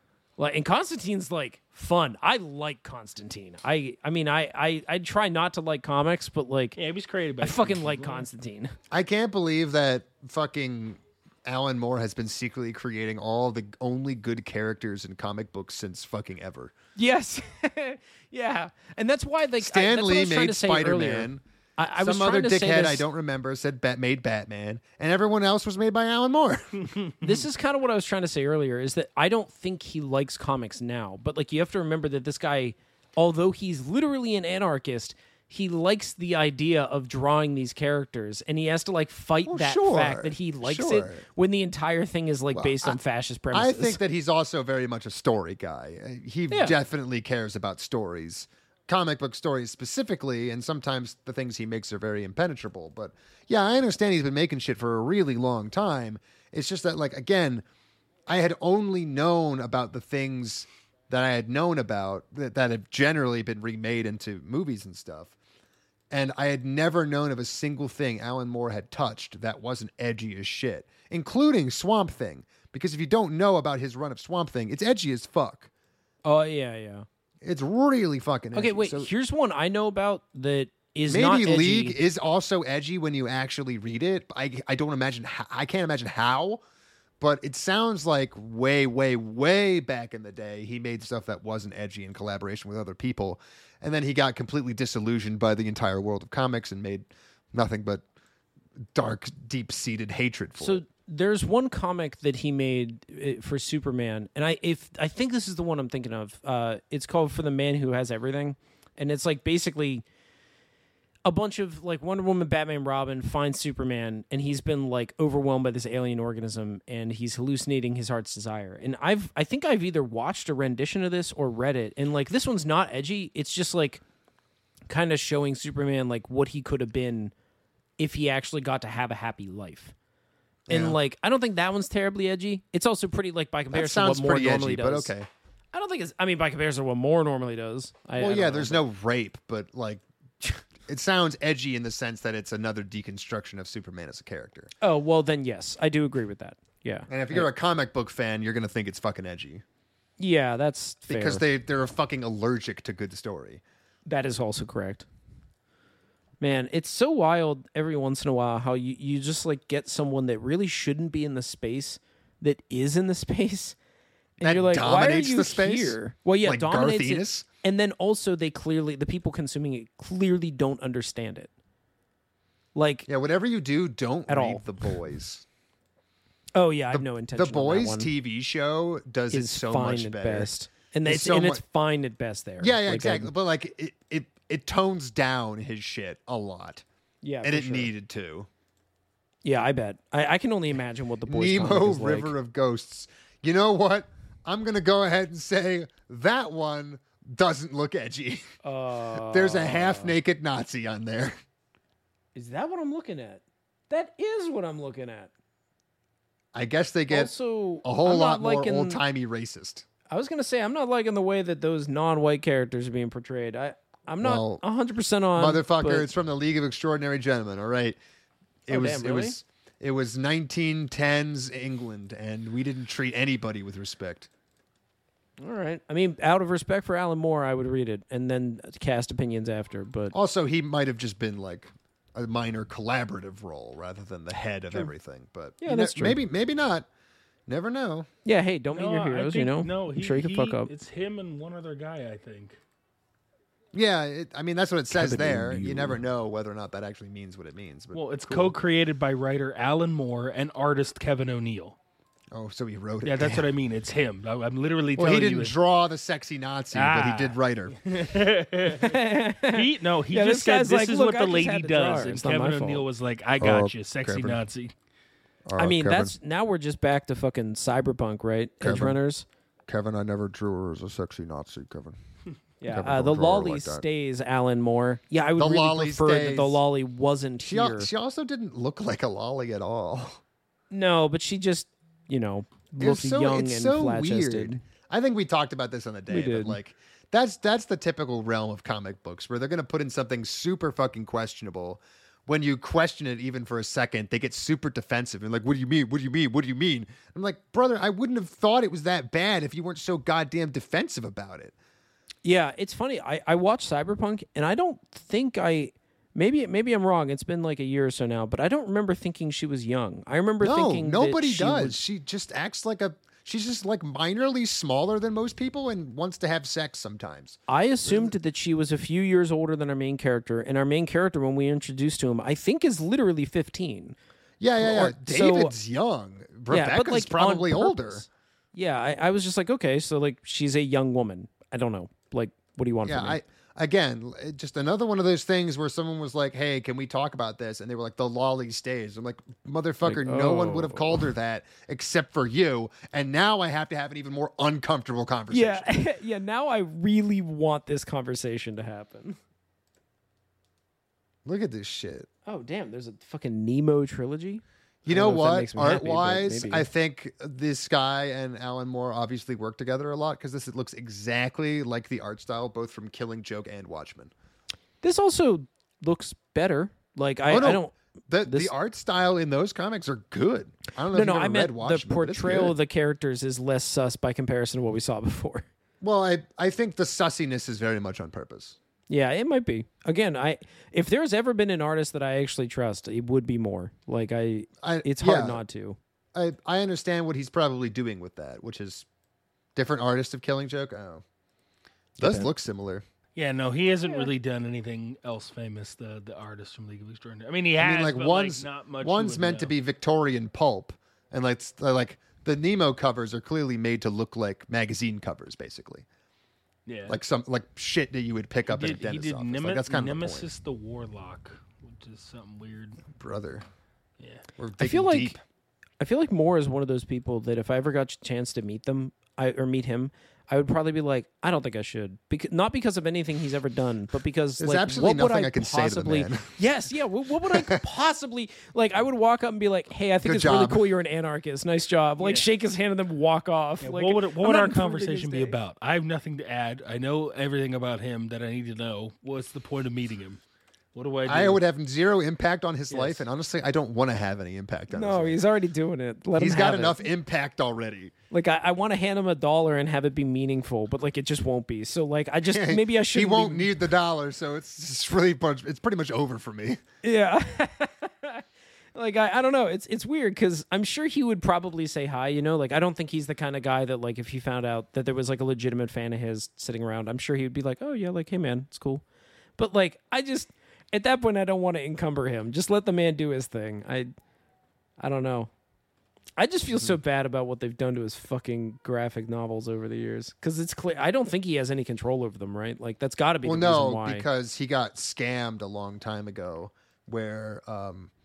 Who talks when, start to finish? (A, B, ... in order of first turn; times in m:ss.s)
0:00.4-0:06.8 A
0:06.8-0:08.3 B
0:07.4-0:08.7 A
0:08.9-0:16.7 C
0:17.0-0:23.0 A
0:19.6-0:21.4 C
0:22.0-0:26.9 C
0:27.2-0:44.0 A
0:39.5-0:41.2 C
0:42.5-0:43.0 C
0:43.5-0:57.6 C
0:58.3-1:05.3 C
1:06.1-1:15.7 C
1:16.2-1:17.0 A
1:17.4-1:19.1 C
1:18.5-1:22.0 A
1:21.1-1:26.6 C
1:27.2-1:38.0 C
1:38.9-1:40.8 C
1:40.6-1:50.0 A
1:51.2-2:04.0 A
2:04.9-2:07.3 A
2:08.0-2:09.9 A
2:10.7-2:11.0 C
2:10.7-2:15.1 A
2:13.7-2:15.3 C
2:15.7-2:18.8 A
2:18.2-2:24.7 C
2:24.8-2:27.5 A
2:27.1-2:29.6 C
2:30.2-2:31.4 A
2:31.1-2:33.6 C
2:34.0-2:35.0 A
2:36.4-2:43.8 A
2:44.4-2:51.5 A
2:44.4-2:47.4 C
2:52.7-2:53.1 A
2:53.1-2:55.4 C
2:54.3-2:54.6 A
2:56.5-2:58.1 A
2:56.9-3:00.5 C
2:59.3-3:03.3 A
3:01.0-3:01.6 C
3:02.6-3:06.8 C
3:07.2-3:07.9 A
3:07.4-3:08.5 C
3:09.4-3:12.3 A
3:11.3-3:18.5 C
3:18.6-3:20.1 A
3:19.2-3:21.4 C
3:22.3-3:25.3 A
3:26.5-3:27.3 C
3:27.1-3:29.0 A
3:27.8-3:29.8 C
3:30.1-3:36.1 A
3:34.2-3:34.6 C
3:35.4-3:38.0 C
3:38.7-3:44.3 C
3:38.7-3:39.4 A
3:45.4-3:50.1 A
3:50.1-3:56.9 C
3:55.6-3:56.2 A
3:57.5-3:58.1 C
3:58.2-4:00.7 A
3:58.7-4:02.6 B
4:03.7-4:08.6 C
4:04.9-4:06.0 A
4:07.9-4:11.8 B
4:12.3-4:13.5 C
4:13.0-4:15.6 B
4:15.0-4:17.8 C
4:16.7-4:24.7 B
4:18.7-4:22.8 A
4:23.4-4:24.4 C
4:25.5-4:26.1 C
4:25.6-4:29.2 A
4:28.6-4:29.0 C
4:29.7-4:32.0 C
4:32.6-4:37.9 A
4:32.7-4:33.8 C
4:35.4-4:36.6 C
4:37.4-4:40.2 C
4:40.7-4:44.6 A
4:42.8-5:01.5 C
4:46.1-4:46.6 A
5:02.2-5:11.8 A
5:10.4-5:18.1 C
5:17.5-5:24.0 A
5:24.4-5:28.0 C
5:24.6-5:25.5 A
5:26.5-5:33.2 A
5:32.8-5:45.7 C
5:39.8-5:41.1 A
5:45.3-5:49.2 A
5:51.2-5:52.1 C
5:52.2-5:56.7 A
5:54.8-6:04.1 C
6:04.8-6:07.7 A
6:07.3-6:12.5 C
6:08.2-6:08.5 A
6:10.9-6:15.4 A
6:15.8-6:18.6 C
6:18.9-6:25.8 A
6:24.6-6:25.4 C
6:26.1-6:28.8 C
6:29.5-6:31.0 C
6:32.0-6:32.8 C
6:32.0-6:32.3 A
6:33.2-6:39.5 B
6:37.6-6:45.8 C
6:46.6-6:47.0 B
6:46.9-6:50.3 C
6:48.5-6:52.8 B
6:52.9-6:53.4 C
6:54.0-6:54.2 B
6:54.4-6:55.2 C
6:54.6-6:55.2 A
6:55.8-7:15.4 A
7:04.4-7:06.3 C
7:07.3-7:07.6 C
7:10.0-7:10.7 C
7:12.0-7:12.3 B
7:13.6-7:20.2 B
7:20.7-7:21.4 B
7:21.0-7:25.2 C
7:22.7-7:23.0 B
7:24.7-7:26.8 A
7:26.2-7:27.9 C
7:28.1-7:33.5 A
7:32.3-7:36.6 C
7:36.8-7:48.8 A
7:49.4-7:53.9 A
7:54.8-7:55.3 A
7:56.2-8:04.0 A
8:03.2-8:07.9 C